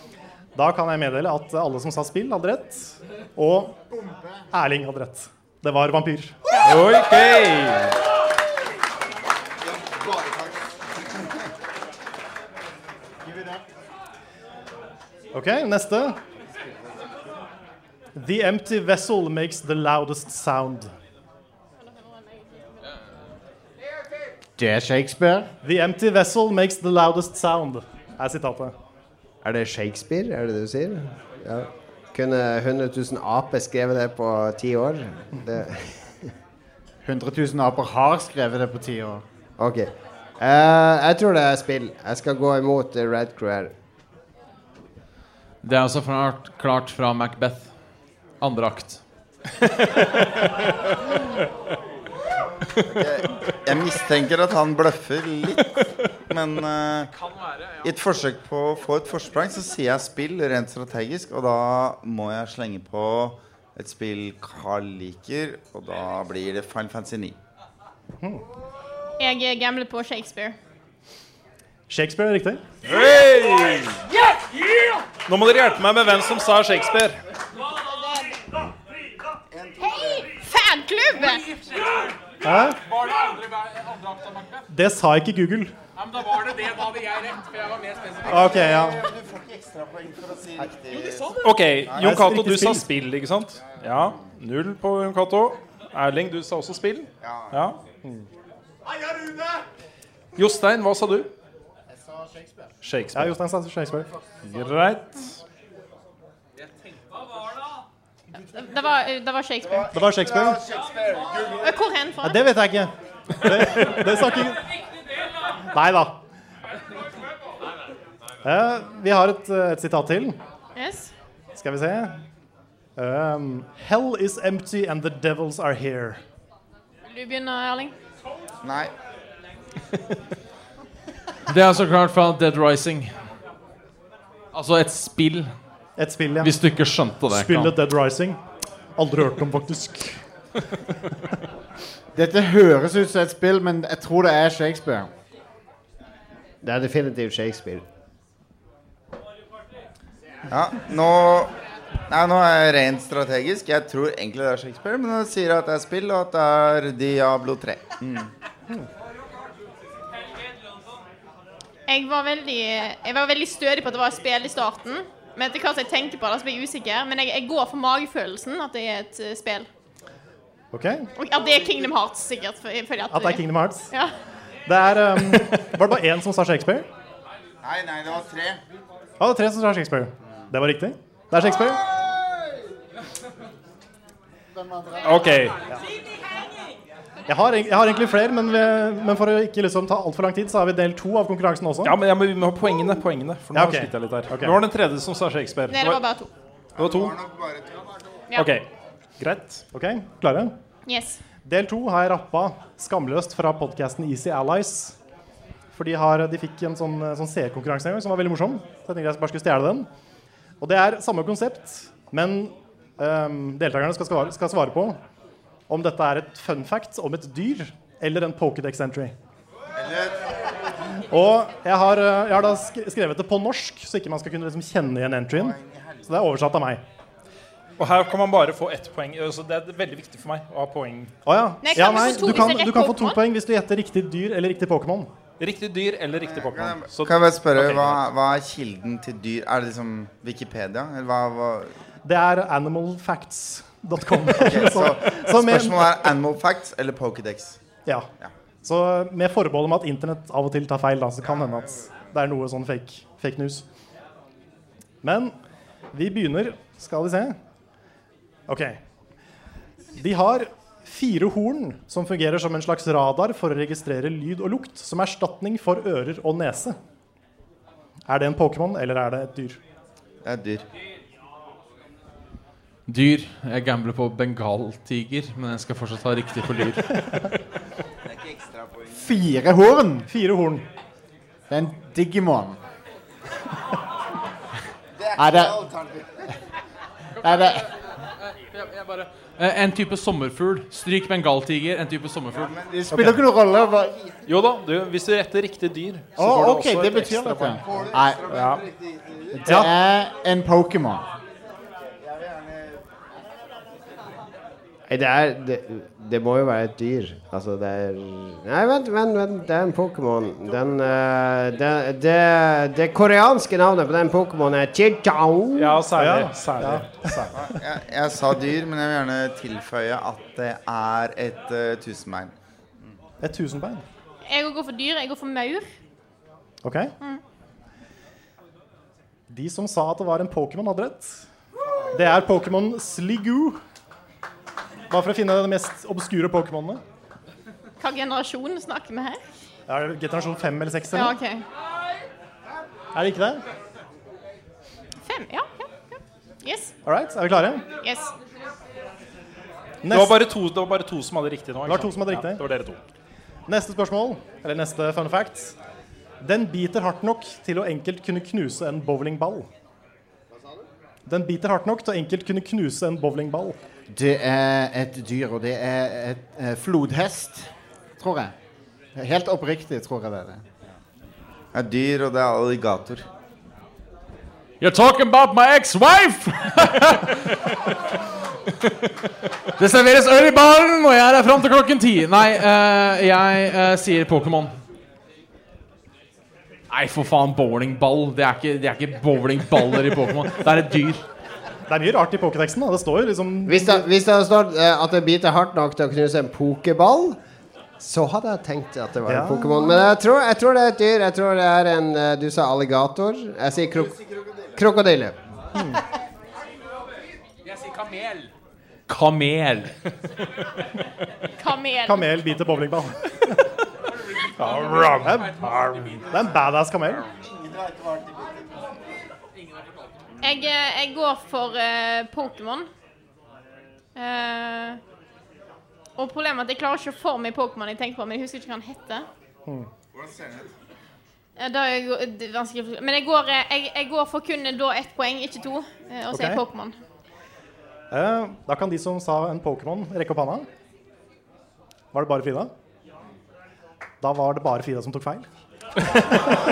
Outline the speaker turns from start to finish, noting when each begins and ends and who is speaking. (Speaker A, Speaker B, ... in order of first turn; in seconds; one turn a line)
Speaker A: 0.6-3.8
Speaker A: 4.5-6.3
Speaker B: 6.6-7.9
Speaker A: 15.3-16.2
Speaker A: 18.1-20.9
Speaker C: 21.8-22.7
Speaker D: 24.6-25.5
Speaker A: 25.6-28.7
Speaker E: 29.4-35.8
Speaker D: 37.0-39.2
Speaker E: 39.6-43.7
Speaker F: 45.6-47.7
Speaker F: 48.4-49.0
Speaker G: 52.8-55.6
Speaker G: 56.3-57.1
Speaker H: 57.1-58.0
Speaker G: 57.8-67.3
Speaker C: 69.2-70.5
Speaker A: 71.9-72.6
Speaker B: 72.8-74.0
Speaker B: 75.3-77.2
Speaker G: 79.5-80.2
Speaker C: 79.8-81.4
Speaker H: 81.1-82.2
Speaker A: 82.4-82.8
Speaker H: 82.8-84.7
Speaker A: 84.7-85.7
Speaker H: 86.0-88.5
Speaker A: 88.2-89.0
Speaker G: 88.4-92.2
Speaker H: 90.9-91.7
Speaker B: 91.4-97.8
Speaker A: 91.9-92.8
Speaker G: 97.2-97.7
Speaker B: 100.3-101.3
Speaker B: 102.8-103.3
Speaker A: 103.1-104.1
Speaker B: 104.4-105.3
Speaker H: 106.6-107.8
Speaker C: 108.3-110.0
Speaker A: 109.9-110.7
Speaker C: 111.6-112.4
Speaker A: 112.2-114.6
Speaker A: 115.7-116.2
Speaker A: 118.4-120.4
Speaker C: 120.8-121.1
Speaker A: 121.5-122.2
Speaker A: 123.0-126.2
Speaker C: 127.1-127.9
Speaker G: 128.6-128.9
Speaker F: 131.5-133.1
Speaker F: 134.5-135.5
Speaker A: 136.0-136.6
Speaker F: 136.4-137.7
Speaker A: 137.3-138.4
Speaker A: 138.9-140.2
Speaker D: 142.2-145.1
Speaker E: 146.6-147.8
Speaker G: 150.5-151.5
Speaker G: 152.1-158.3
Speaker C: 161.9-169.7
Speaker A: 170.7-171.1
Speaker C: 171.2-174.1
Speaker A: 173.1-173.9
Speaker A: 174.7-176.9
Speaker G: 177.6-178.6
Speaker A: 179.2-181.9
Speaker B: 185.0-185.6
Speaker A: 187.3-192.0
Speaker B: 191.8-196.0
Speaker A: 193.5-194.6
Speaker C: 195.7-196.3
Speaker G: 196.8-197.7
Speaker B: 196.8-197.2
Speaker B: 198.3-198.7
Speaker B: 199.2-199.6
Speaker A: 199.7-200.5
Speaker C: 200.8-201.2
Speaker A: 201.4-204.9
Speaker A: 205.7-209.9
Speaker A: 210.6-215.0
Speaker A: 215.7-219.1
Speaker G: 219.8-220.1
Speaker A: 221.0-226.8
Speaker G: 225.3-225.9
Speaker B: 227.8-231.1
Speaker A: 231.2-235.1
Speaker C: 231.6-233.2
Speaker B: 235.4-238.0
Speaker G: 236.2-241.7
Speaker A: 242.0-246.0
Speaker G: 244.3-247.6
Speaker A: 248.6-253.6
Speaker G: 251.2-252.1
Speaker A: 255.0-255.3
Speaker A: 255.9-257.4
Speaker A: 258.5-258.8
Speaker A: 259.9-266.8
Speaker A: 268.1-269.6
Speaker G: 270.2-270.6
Speaker F: 272.9-276.8
Speaker G: 278.2-278.8
Speaker D: 278.9-280.1
Speaker A: 280.1-280.6
Speaker D: 281.5-282.6
Speaker G: 285.0-286.1
Speaker D: 285.2-285.6
Speaker H: 287.2-289.3
Speaker D: 287.2-287.6
Speaker F: 289.4-292.5
Speaker G: 292.4-292.6
Speaker D: 292.7-294.0
Speaker A: 292.9-293.2
Speaker B: 294.2-298.6
Speaker D: 296.2-298.3
Speaker D: 299.3-301.0
Speaker A: 299.4-299.7
Speaker E: 304.9-315.8
Speaker B: 315.6-317.3
Speaker A: 315.9-317.3
Speaker G: 317.3-322.3
Speaker A: 323.2-323.8
Speaker C: 324.2-325.7
Speaker A: 326.6-326.9
Speaker A: 329.3-331.2
Speaker A: 331.9-333.6
Speaker A: 334.9-336.8
Speaker C: 337.8-339.2
Speaker A: 339.7-341.2
Speaker C: 340.9-341.4
Speaker A: 342.9-343.4
Speaker C: 345.1-346.7
Speaker A: 346.8-347.6
Speaker C: 347.8-348.1
Speaker A: 349.8-350.2
Speaker B: 349.9-352.8
Speaker A: 351.6-352.4
Speaker A: 353.5-355.5
Speaker A: 356.2-359.5
Speaker A: 361.1-363.6
Speaker D: 363.9-367.5
Speaker D: 368.0-368.3
Speaker D: 368.9-370.4
Speaker G: 371.5-373.0
Speaker F: 374.6-377.2
Speaker F: 379.6-384.5
Speaker F: 386.7-391.0
Speaker A: 391.7-393.9
Speaker E: 393.4-397.2
Speaker E: 397.8-404.0
Speaker A: 399.1-399.7
Speaker E: 404.6-405.2
Speaker H: 407.4-408.3
Speaker F: 408.9-409.7
Speaker C: 411.4-412.0
Speaker A: 411.9-413.4
Speaker H: 413.9-416.2
Speaker A: 414.4-417.0
Speaker G: 417.4-418.4
Speaker H: 419.3-420.0
Speaker C: 420.2-422.7
Speaker C: 423.9-424.8
Speaker C: 426.0-429.1
Speaker G: 429.9-430.5
Speaker C: 431.4-436.7
Speaker A: 436.1-436.4
Speaker A: 437.9-440.5
Speaker A: 441.9-442.5
Speaker A: 444.0-445.2